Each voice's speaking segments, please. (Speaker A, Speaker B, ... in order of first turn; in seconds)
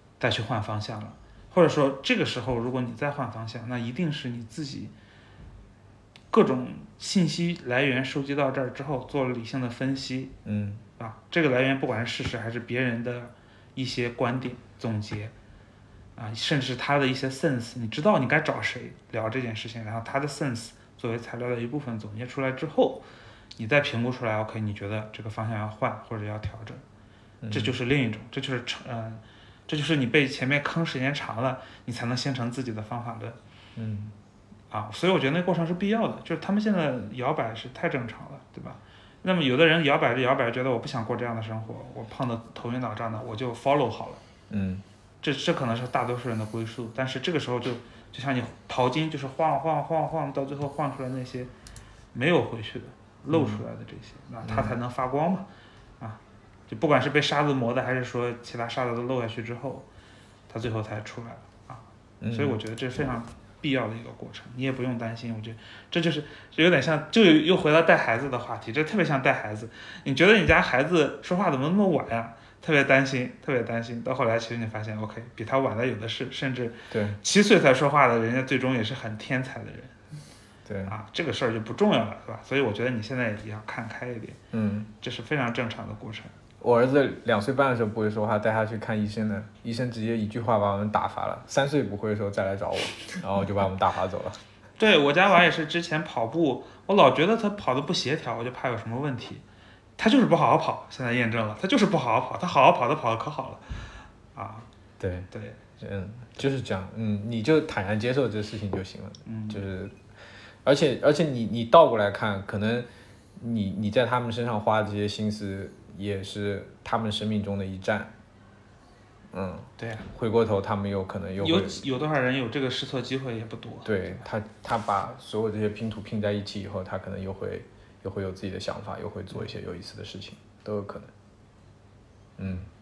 Speaker A: 0.2-4.9, 6.3-10.3, 11.0-15.3, 16.1-26.8, 27.5-33.4, 34.7-44.2, 45.2-51.5, 52.1-55.5, 56.0-59.9, 60.5-79.9, 80.9-84.4, 85.0-86.3, 94.8-99.4, 100.0-104.7, 105.3-105.6, 109.2-109.6, 119.8-120.1, 121.4-124.1
Speaker B: 10.4-10.8, 27.4-27.8, 33.8-34.1, 44.5-44.8, 53.3-53.6, 54.4-54.8, 62.2-62.6, 76.9-77.2, 80.7-80.9, 84.5-84.9, 86.6-94.4, 105.0-105.3, 105.8-110.0, 110.6-118.1, 119.3-121.8, 123.8-131.1, 132.4-132.7